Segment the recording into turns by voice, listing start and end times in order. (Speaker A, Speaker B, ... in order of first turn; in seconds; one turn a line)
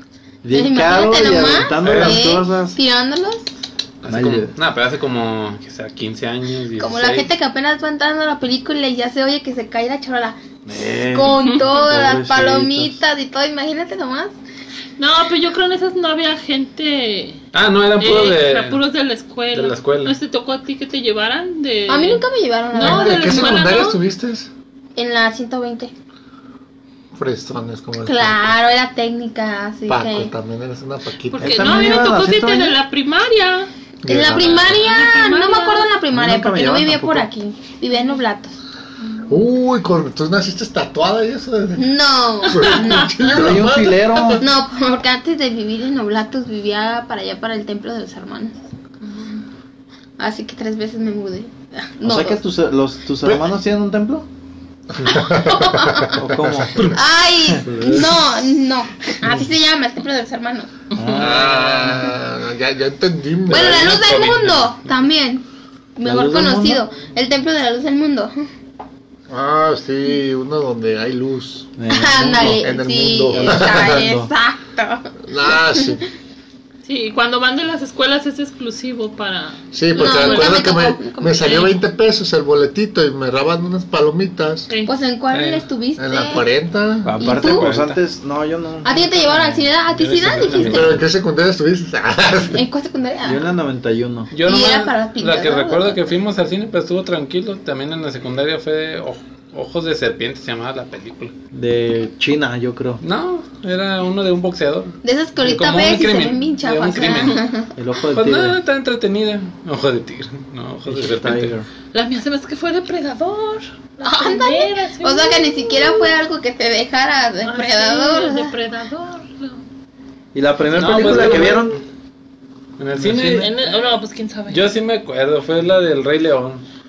Speaker A: 0.4-2.8
Speaker B: 0.5-3.5
Speaker C: 1.8-2.2
Speaker C: 4.0-7.3
Speaker A: 4.1-4.5
Speaker B: 6.8-10.4
Speaker A: 10.7-13.0
Speaker B: 10.9-14.3
Speaker D: 11.4-11.7
Speaker D: 15.0-17.4
Speaker C: 17.5-18.8
Speaker D: 18.0-24.0
Speaker C: 19.5-20.1
Speaker B: 21.9-23.6
Speaker E: 22.8-24.5
Speaker B: 25.0-25.9
Speaker E: 27.1-28.6
Speaker B: 28.0-30.3
Speaker E: 29.9-31.8
Speaker D: 31.3-33.7
Speaker A: 31.4-32.8
Speaker E: 34.0-34.8
Speaker B: 34.1-38.5
Speaker D: 34.7-35.9
Speaker A: 36.1-37.3
Speaker E: 39.3-42.0
Speaker B: 41.8-43.6
Speaker D: 42.5-43.2
Speaker E: 42.5-44.4
Speaker A: 43.3-44.5
Speaker B: 44.4-48.5
Speaker B: 50.2-52.4
Speaker A: 52.0-54.3
Speaker E: 55.0-56.9
Speaker B: 55.2-56.1
Speaker A: 56.1-58.2
Speaker B: 56.9-60.7
Speaker A: 61.0-62.1
Speaker E: 61.2-64.0
Speaker B: 63.5-65.4
Speaker C: 63.7-64.7
Speaker B: 66.0-68.4
Speaker A: 66.0-66.9
Speaker E: 69.3-71.7
Speaker A: 71.8-74.3
Speaker B: 71.9-75.1
Speaker E: 72.4-74.0
Speaker E: 75.2-76.0
Speaker D: 76.9-80.6
Speaker E: 79.7-84.7
Speaker B: 80.0-81.7
Speaker B: 84.8-86.5
Speaker C: 85.3-85.6
Speaker E: 86.0-87.1
Speaker A: 87.1-89.7
Speaker B: 87.2-87.8
Speaker C: 87.2-88.0
Speaker B: 88.8-91.0
Speaker C: 90.0-91.0
Speaker A: 90.4-91.0
Speaker E: 90.7-92.6
Speaker B: 92.5-93.5
Speaker A: 93.2-94.3
Speaker C: 94.3-101.3
Speaker B: 94.4-96.0
Speaker A: 101.5-103.0
Speaker C: 103.0-107.4
Speaker B: 105.0-107.7
Speaker A: 107.8-108.6
Speaker C: 108.1-111.6
Speaker A: 110.9-111.7
Speaker D: 111.9-116.1
Speaker B: 114.0-118.5
Speaker D: 117.4-119.6
Speaker A: 120.3-121.8
Speaker C: 120.7-121.8
Speaker C: 122.8-123.6
Speaker A: 123.0-123.5
Speaker D: 123.4-124.7
Speaker C: 124.5-126.6